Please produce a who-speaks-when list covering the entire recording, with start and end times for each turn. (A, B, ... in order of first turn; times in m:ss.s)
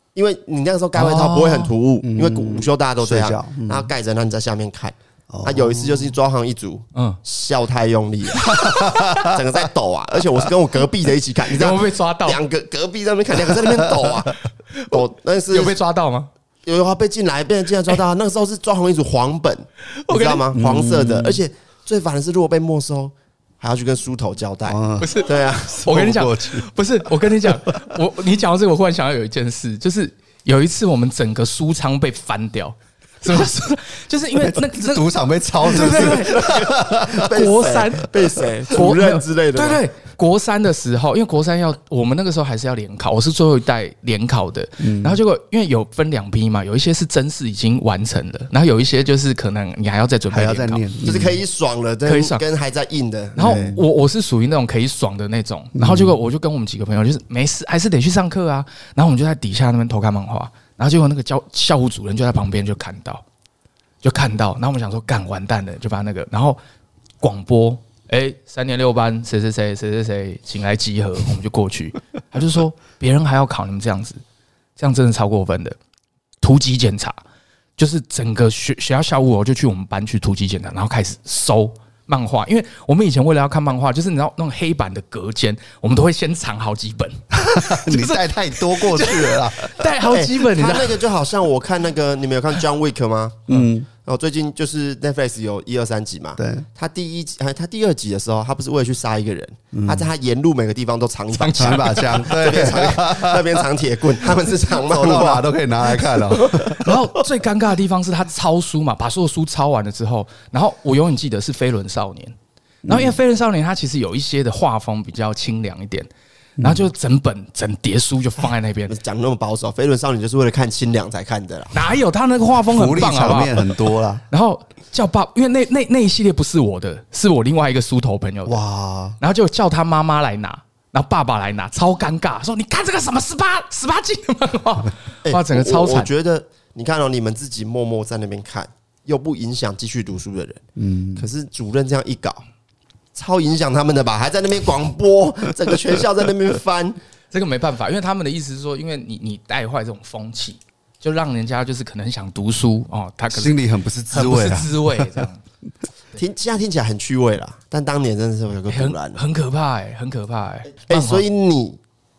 0:00.2-0:08.6 A
0:01.0-0:01.7 B
0:02.0-0:03.9 C
0:05.3-0:06.1 C
0:07.0-0:07.2 B
0:08.4-0:09.3 B
0:08.5-0:09.2 C
0:09.2-0:14.4 A
0:11.5-0:12.4 B
0:13.5-0:14.1 C
0:14.9-0:15.8 A
0:15.5-0:16.3 B
0:16.6-0:25.8 A
0:19.9-0:20.5 B
0:20.5-0:21.4 C
0:24.7-0:26.7 C
0:25.0-0:35.1 B
0:27.4-0:27.8 C
0:34.4-0:37.3 C
0:35.6-0:50.8 B
0:35.8-0:39.8 A
0:44.8-0:45.2 C
0:50.3-0:51.4 C
0:51.0-0:53.8 A
0:52.0-0:52.4 B
0:53.4-1:03.2 B
0:53.4-0:53.7 C
0:55.8-0:56.2 C
1:04.0-1:06.6 B
1:07.2-1:14.2 B
1:14.8-1:15.8 B
1:16.4-1:17.2 B
1:17.8-1:31.0 B
1:27.3-1:29.9 C
1:30.1-1:46.8 A
1:33.5-1:33.9 C
1:36.4-1:36.6 C
1:39.7-1:40.1 C
1:41.3-1:42.4 B
1:41.6-1:43.7 C
1:44.2-1:47.0 C
1:46.7-1:52.4 B
1:52.8-1:53.2 C
1:52.9-1:56.1 B
1:56.6-1:56.9 C
1:56.6-1:59.0 B
1:58.9-2:01.8 A
2:01.7-2:03.7 B
2:02.7-2:04.2 C
2:04.3-2:08.6 B
2:08.5-2:09.2 C
2:09.2-2:16.1 B
2:15.2-2:20.6 A
2:20.8-2:21.2 C
2:21.2-2:22.4 A
2:23.2-2:27.0 A
2:27.3-2:33.6 B
2:33.3-2:35.2 C
2:34.1-2:35.4 B
2:36.2-2:39.2 A
2:38.7-2:41.2 B
2:40.9-2:41.8 A